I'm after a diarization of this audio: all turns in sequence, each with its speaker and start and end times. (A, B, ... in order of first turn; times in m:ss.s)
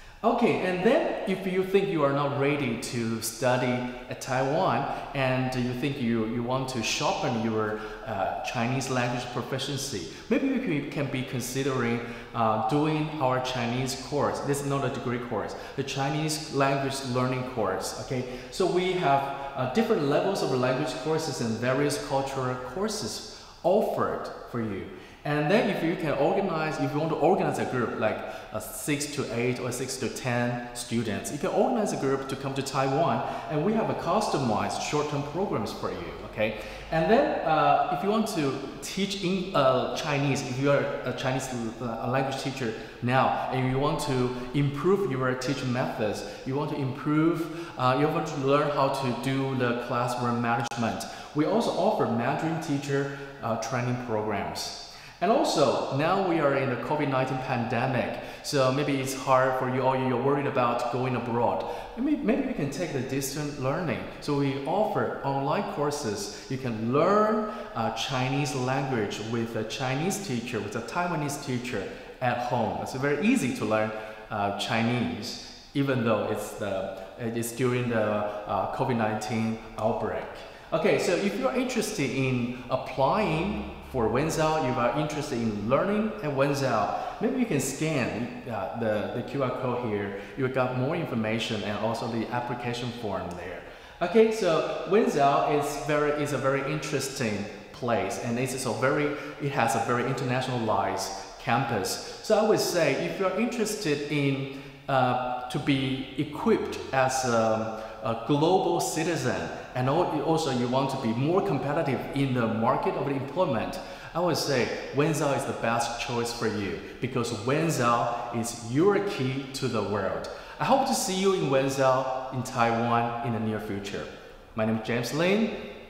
0:00.2-2:05.6 A